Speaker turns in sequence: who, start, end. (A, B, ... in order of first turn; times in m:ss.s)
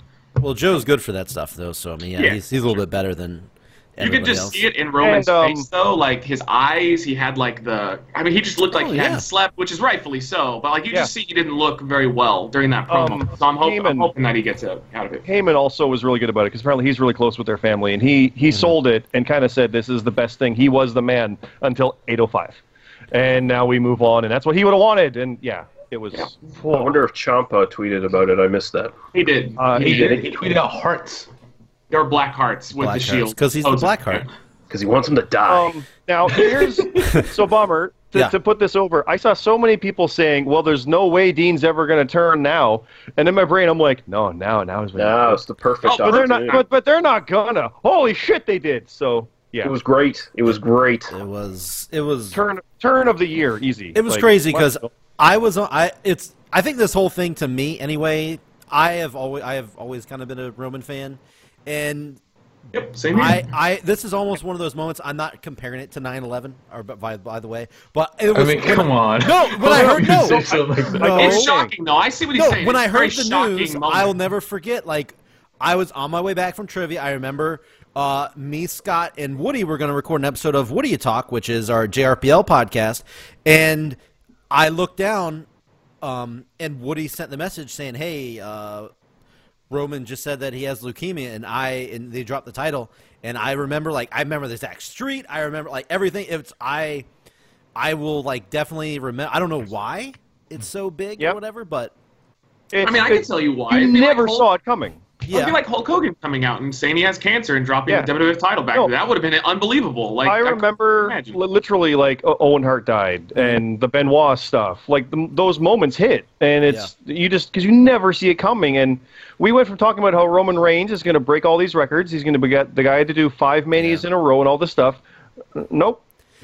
0:00.4-0:04.6 A
0:04.0-0:15.2 B
0:05.0-0:05.7 C
0:08.7-0:09.2 A
0:12.9-0:14.1 C
0:15.2-0:22.6 C
0:18.5-0:18.8 A
0:23.1-0:27.0 C
0:26.7-0:29.0 D
0:29.1-0:30.2 B
0:29.6-0:30.2 C
0:29.8-0:31.3 E
0:30.0-0:30.5 D
0:31.9-0:34.3 B
0:32.8-0:34.3 A
0:34.7-0:35.7 D
0:35.5-0:45.4 C
0:45.0-0:46.6 D
0:45.8-0:46.6 B
0:46.0-0:49.7 C
0:49.6-0:51.2 D
0:51.1-0:52.4 A
0:52.3-0:54.9 C
0:54.0-1:02.2 A
1:02.7-1:03.5 B
1:03.1-1:11.5 A
1:08.3-1:11.2 E
1:11.0-1:11.7 C
1:11.0-1:14.2 B
1:12.4-1:24.0 A
1:24.5-1:25.5 A
1:26.0-1:28.9 A
1:29.7-1:37.1 A
1:37.8-1:41.9 A
1:42.7-1:45.0 C
1:42.8-1:44.5 B
1:45.2-1:45.6 A
1:45.3-1:51.4 B
1:50.2-2:05.0 C
2:03.8-2:04.0 A
2:05.6-2:06.0 C